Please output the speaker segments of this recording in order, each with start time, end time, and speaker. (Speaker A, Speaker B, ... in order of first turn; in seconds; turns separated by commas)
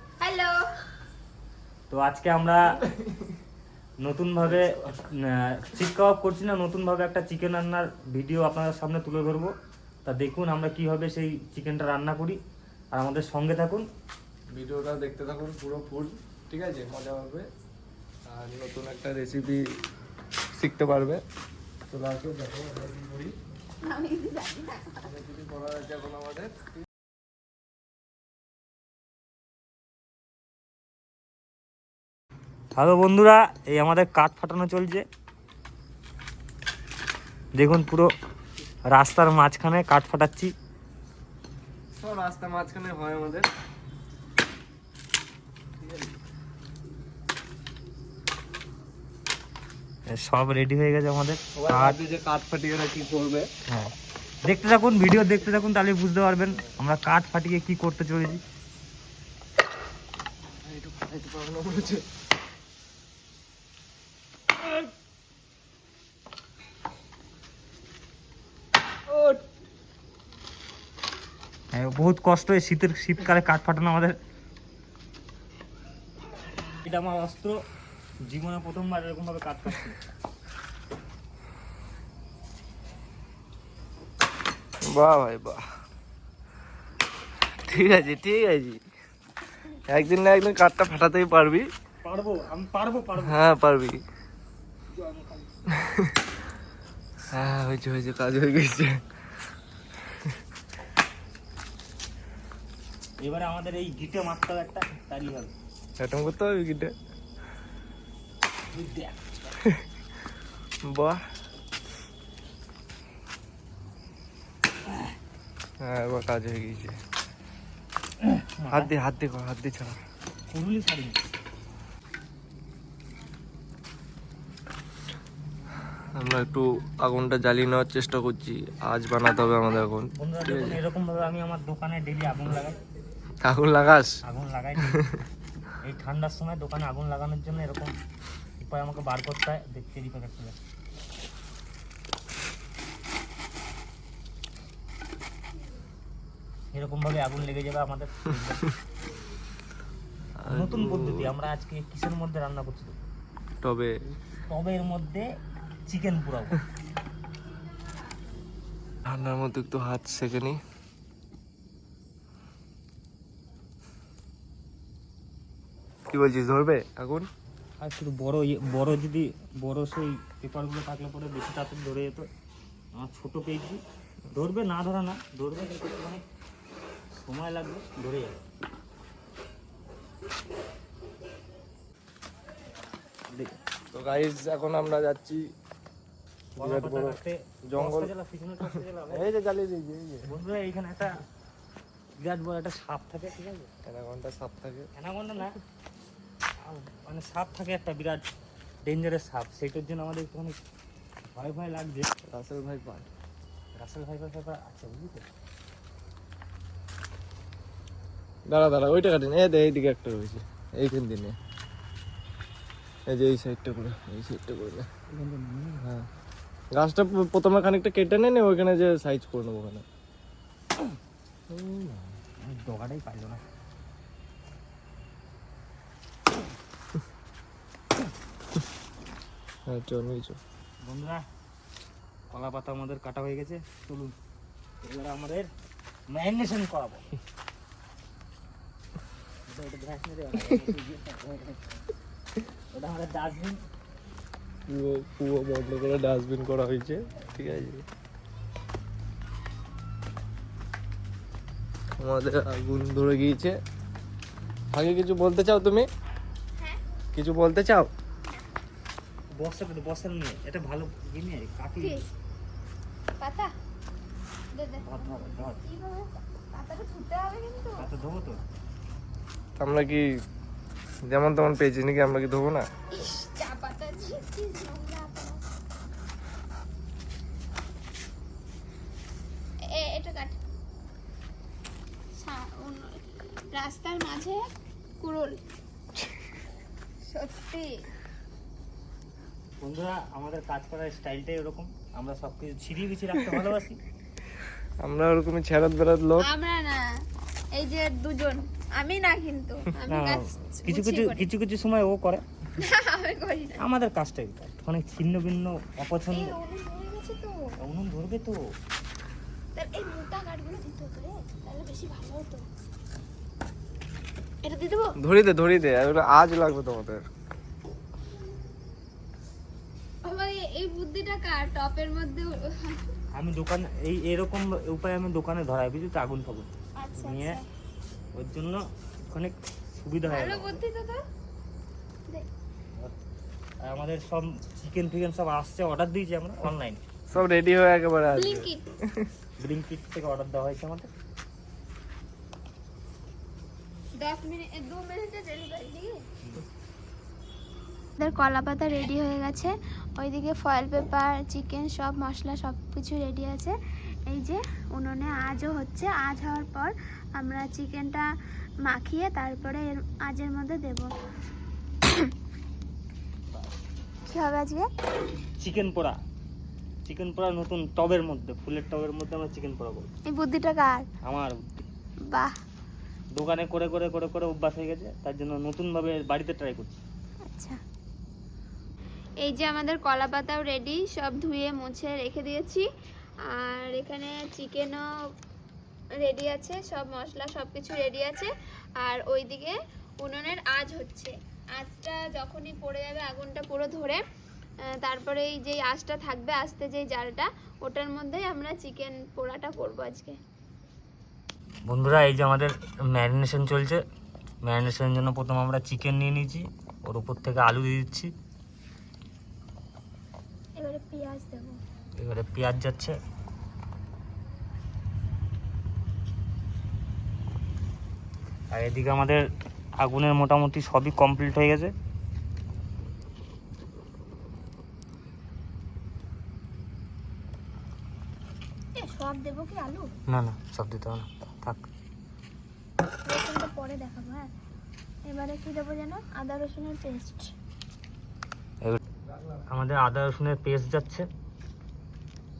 Speaker A: 0.2-0.7, Speaker B: 1.9-2.6, Speaker C: 2.8-3.3, Speaker B: 4.0-9.5, Speaker C: 4.4-4.9, Speaker B: 10.1-12.4, Speaker B: 12.9-13.9, Speaker C: 14.5-17.5, Speaker C: 18.3-19.6, Speaker C: 20.6-21.2, Speaker C: 21.9-23.4, Speaker A: 23.8-25.1, Speaker C: 25.0-26.6, Speaker B: 32.8-35.0, Speaker B: 37.5-38.1, Speaker B: 38.9-40.5, Speaker C: 41.9-43.5, Speaker C: 45.8-46.1, Speaker B: 50.1-52.0, Speaker C: 51.5-53.5, Speaker B: 53.7-53.9, Speaker B: 54.4-58.4, Speaker C: 60.6-62.0, Speaker C: 69.1-69.4, Speaker B: 71.7-74.2, Speaker B: 76.8-77.6, Speaker B: 78.2-80.0, Speaker C: 84.9-85.6, Speaker C: 87.6-88.8, Speaker C: 89.9-91.7, Speaker B: 92.0-93.4, Speaker C: 93.2-94.0, Speaker B: 94.9-95.5, Speaker C: 95.7-96.1, Speaker C: 97.3-99.0, Speaker B: 103.2-105.5, Speaker C: 106.0-106.9, Speaker B: 108.7-109.6, Speaker C: 110.8-111.2, Speaker C: 115.8-117.0, Speaker B: 118.2-118.9, Speaker C: 118.7-120.0, Speaker B: 120.5-121.2, Speaker C: 126.1-130.8, Speaker B: 130.2-132.8, Speaker C: 133.4-134.2, Speaker B: 134.2-135.0, Speaker C: 134.9-135.2, Speaker B: 135.8-137.9, Speaker B: 138.6-140.6, Speaker B: 146.7-148.7, Speaker C: 150.4-151.3, Speaker B: 150.4-153.0, Speaker C: 153.6-154.0, Speaker B: 154.5-155.3, Speaker B: 155.9-156.6, Speaker C: 159.1-160.6, Speaker C: 166.1-167.3, Speaker B: 167.8-172.3, Speaker B: 173.0-173.8, Speaker B: 174.3-176.2, Speaker B: 177.1-178.4, Speaker C: 183.9-185.5, Speaker B: 186.6-189.3, Speaker C: 186.6-187.2, Speaker C: 187.7-188.1, Speaker C: 189.1-190.3, Speaker B: 190.3-191.2, Speaker B: 192.2-193.7, Speaker C: 193.8-194.9, Speaker B: 194.9-195.6, Speaker B: 196.6-198.2, Speaker B: 198.8-200.6, Speaker B: 201.3-202.1, Speaker C: 202.3-203.1, Speaker B: 203.8-205.2, Speaker C: 208.5-211.3, Speaker C: 213.1-214.9, Speaker B: 215.1-215.8, Speaker C: 216.7-219.8, Speaker C: 221.5-222.2, Speaker B: 222.4-223.4, Speaker C: 229.7-230.4, Speaker B: 230.8-231.2, Speaker B: 232.3-234.1, Speaker B: 234.8-235.5, Speaker B: 236.1-237.2, Speaker B: 239.5-241.6, Speaker B: 242.7-243.6, Speaker C: 244.7-247.8, Speaker C: 252.0-253.6, Speaker C: 254.7-255.9, Speaker C: 257.1-257.9, Speaker B: 259.3-262.1, Speaker A: 261.8-262.1, Speaker A: 263.2-263.5, Speaker A: 264.5-267.9, Speaker B: 264.8-265.6, Speaker B: 267.8-268.4, Speaker C: 269.6-270.1, Speaker C: 271.1-272.7, Speaker A: 272.9-275.4, Speaker A: 279.6-280.4, Speaker A: 282.1-283.0, Speaker A: 283.5-284.5, Speaker A: 285.0-285.4, Speaker A: 287.0-287.8, Speaker B: 289.6-293.8, Speaker C: 294.8-296.3, Speaker A: 296.2-296.8, Speaker A: 297.5-301.3, Speaker B: 299.9-302.2, Speaker A: 302.6-303.6, Speaker B: 303.6-306.3, Speaker A: 306.1-307.4, Speaker B: 307.6-308.4, Speaker A: 309.5-312.5, Speaker A: 314.4-315.0, Speaker C: 315.0-317.0, Speaker A: 320.0-322.9, Speaker B: 323.1-327.4, Speaker A: 326.8-327.4, Speaker B: 328.1-330.6, Speaker A: 330.0-331.0, Speaker B: 333.6-336.8, Speaker C: 337.1-339.1, Speaker A: 338.1-338.6, Speaker B: 339.4-340.9, Speaker A: 343.9-346.0, Speaker A: 348.0-353.6, Speaker A: 354.1-358.1, Speaker A: 358.7-360.9, Speaker A: 364.1-364.7, Speaker B: 365.4-366.0, Speaker B: 366.8-369.9, Speaker A: 370.1-370.9, Speaker B: 371.0-371.7, Speaker A: 372.1-372.3, Speaker B: 373.1-376.8, Speaker A: 377.3-377.6, Speaker A: 379.2-382.7, Speaker A: 383.3-384.8, Speaker A: 386.0-394.0, Speaker A: 394.8-400.2, Speaker B: 401.6-403.8, Speaker B: 404.4-408.1, Speaker A: 410.6-411.6, Speaker B: 412.0-413.0, Speaker B: 418.5-419.2, Speaker B: 419.8-421.7, Speaker A: 428.8-429.9, Speaker B: 430.1-431.6, Speaker A: 433.0-434.3, Speaker A: 435.1-437.3, Speaker C: 439.0-439.5, Speaker B: 439.5-441.1